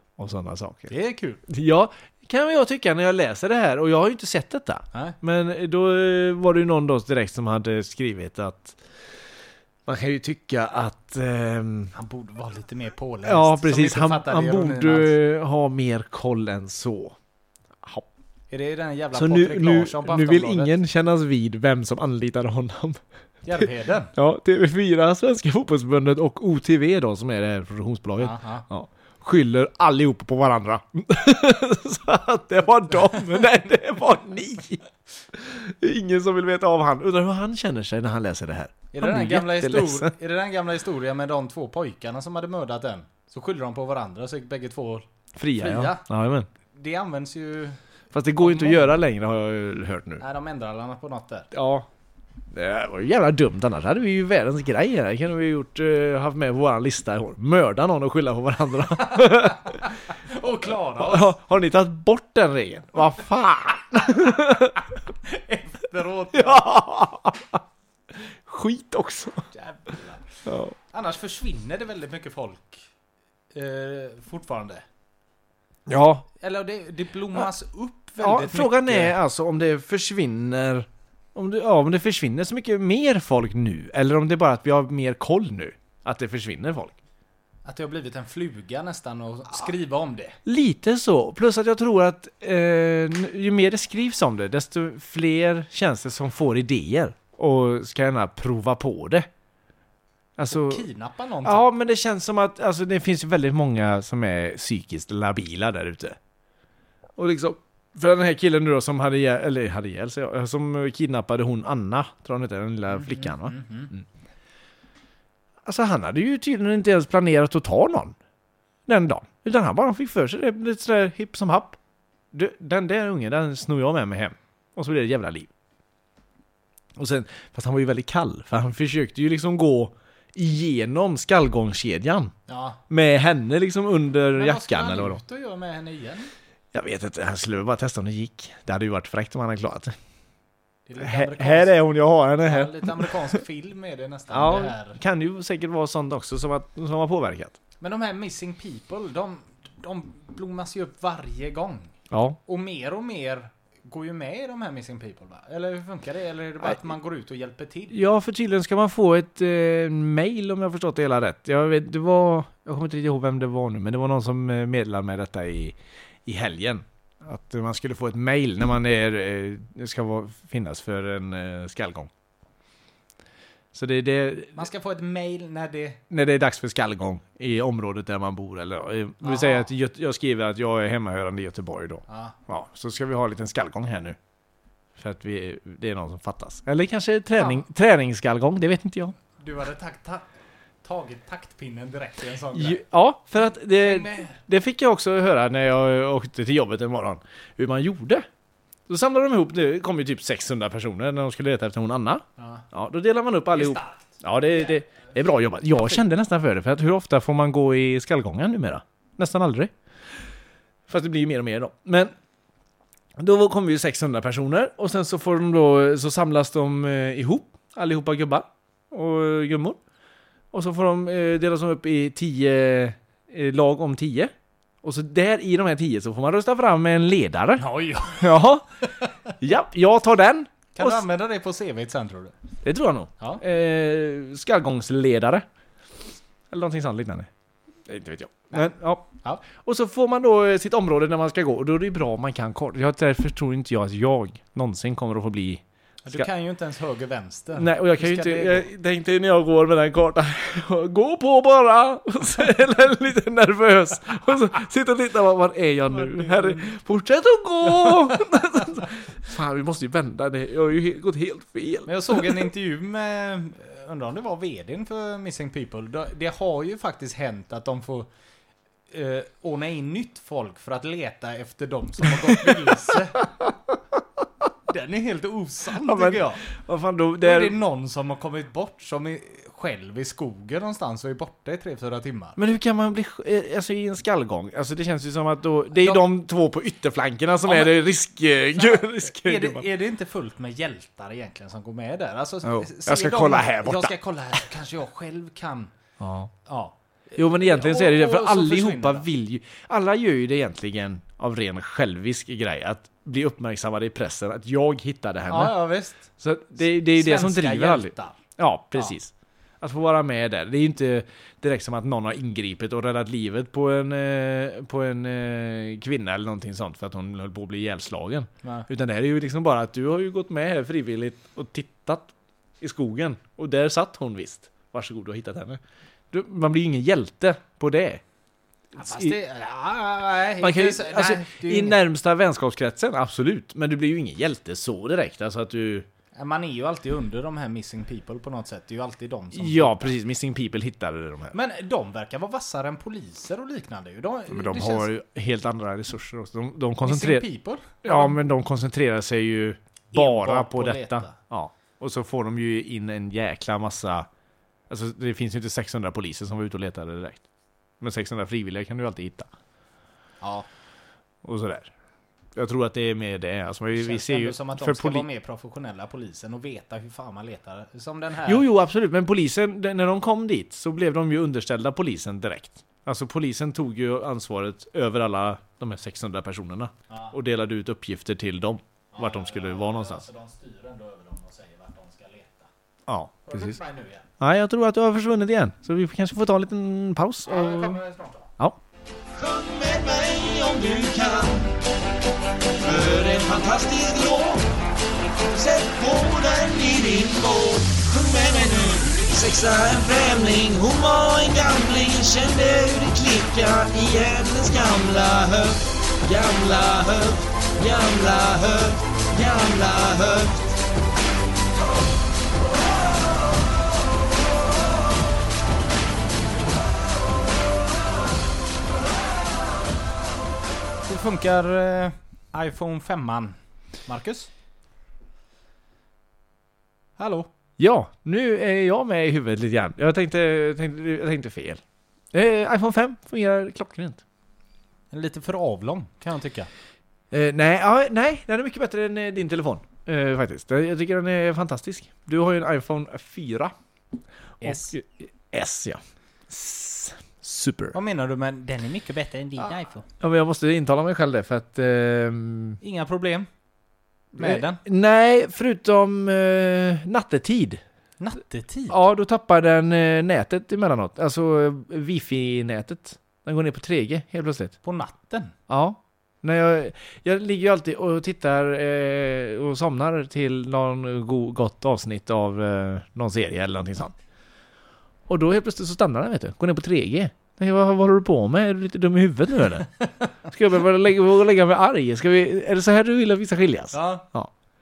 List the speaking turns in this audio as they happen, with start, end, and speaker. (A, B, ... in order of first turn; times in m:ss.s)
0:00.2-0:00.9 A
0:00.9-0:01.4 B
0:01.5-0:08.8 A
0:09.9-0:11.9 A
0:11.9-0:15.2 B
0:13.2-0:17.2 A
0:18.5-0:20.7 B
0:19.1-0:23.0 A
0:23.4-0:24.1 B
0:24.2-0:40.1 A
0:28.2-0:28.7 B
0:38.9-0:46.0 B
0:45.4-0:46.5 A
0:46.7-0:47.8 B
0:48.1-0:50.2 A
0:48.4-0:48.9 B
0:50.2-0:51.5 B
0:51.5-0:51.9 A
0:52.5-0:59.8 A
0:59.2-1:01.3 B
1:01.0-1:04.8 A
1:04.2-1:04.6 B
1:05.2-1:06.7 B
1:06.3-1:07.6 A
1:08.1-1:09.5 A
1:09.5-1:10.3 B
1:10.5-1:10.8 A
1:10.9-1:12.9 B
1:13.5-1:14.8 B
1:15.9-1:16.3 A
1:16.4-1:19.2 B
1:18.2-1:27.0 A
1:27.6-1:30.4 B
1:30.4-1:39.3 A
1:40.4-1:40.8 A
1:40.5-1:41.7 B
1:41.4-1:46.2 A
1:47.2-1:54.0 A
1:52.9-1:53.9 B
1:55.6-1:58.2 A
1:58.9-2:01.8 A
2:02.3-2:05.5 A
2:07.0-2:12.3 A
2:12.5-2:12.8 B
2:12.9-2:15.2 A
2:14.3-2:16.3 B
2:16.7-2:20.0 A
2:20.9-2:21.8 B
2:21.0-2:23.2 A
2:22.4-2:25.0 B
2:24.3-2:27.6 A
2:27.8-2:31.9 B
2:32.1-2:32.4 A
2:32.4-2:38.0 B
2:37.9-2:52.1 A
2:53.7-2:54.7 A
2:54.6-2:56.0 B
2:56.1-3:04.2 A
2:59.2-2:59.7 B
3:02.1-3:02.4 B
3:05.0-3:09.2 A
3:07.4-3:07.6 B
3:09.4-3:10.2 B
3:10.8-3:12.8 B
3:12.5-3:18.3 A
3:13.7-3:14.4 B
3:18.9-3:29.7 A
3:22.4-3:22.6 B
3:23.5-3:25.1 B
3:30.9-3:32.1 A
3:33.2-3:39.8 A
3:40.5-3:47.6 A
3:47.6-3:48.4 B
3:48.2-3:48.7 A
3:49.4-3:51.1 A
3:50.8-3:52.3 B
3:52.6-3:55.5 A
3:56.5-3:57.3 A
3:57.9-4:06.3 A
4:06.1-4:08.7 B
4:07.6-4:22.4 A
4:15.9-4:16.7 B
4:17.8-4:18.2 B
4:21.9-4:28.1 B
4:28.9-4:33.3 B
4:34.7-4:36.4 B
4:35.8-4:37.6 A
4:37.2-4:42.4 B
4:42.4-4:49.7 A
4:45.8-4:46.1 B
4:47.4-4:47.8 B
4:48.5-4:55.7 B
4:52.4-4:53.9 A
4:56.0-4:56.3 A
4:56.4-4:59.1 B
4:57.2-5:28.0 A
5:05.3-5:08.2 B
5:28.8-5:31.8 B
5:28.8-5:29.2 A
5:30.4-5:35.9 A
5:36.2-5:40.0 B
5:39.3-5:41.4 A
5:41.3-5:44.9 B
5:44.3-5:47.3 A
5:46.8-5:48.2 B
5:47.8-5:54.1 A
5:49.9-5:51.2 B
5:54.7-5:57.2 A
5:57.8-5:59.3 A
6:00.2-6:00.5 B
6:01.2-6:01.7 A
6:02.4-6:05.1 A
6:03.7-6:08.4 B
6:08.3-6:20.0 A
6:18.9-6:22.5 B
6:22.9-6:23.6 A
6:23.2-6:24.1 B
6:24.2-6:27.8 A
6:27.3-6:28.3 B
6:29.2-6:31.5 C
6:32.6-6:34.4 C
6:35.3-6:50.6 C
7:00.8-7:04.3 B
7:07.0-7:07.3 B
7:07.6-7:11.6 A
7:12.1-7:14.0 A
7:14.9-7:16.5 B
7:17.1-7:23.5 A
7:24.4-7:27.8 A
7:24.4-7:24.7 B
7:27.7-7:29.9 B
7:30.0-7:32.6 A
7:32.6-7:33.3 B
7:34.2-7:37.6 A
7:34.2-7:34.6 B
7:38.0-7:38.8 B
7:38.7-7:44.6 A
7:44.6-7:45.3 B
7:45.5-7:53.9 A
7:55.1-7:59.7 A
8:00.3-8:04.3 A
8:03.7-8:04.1 B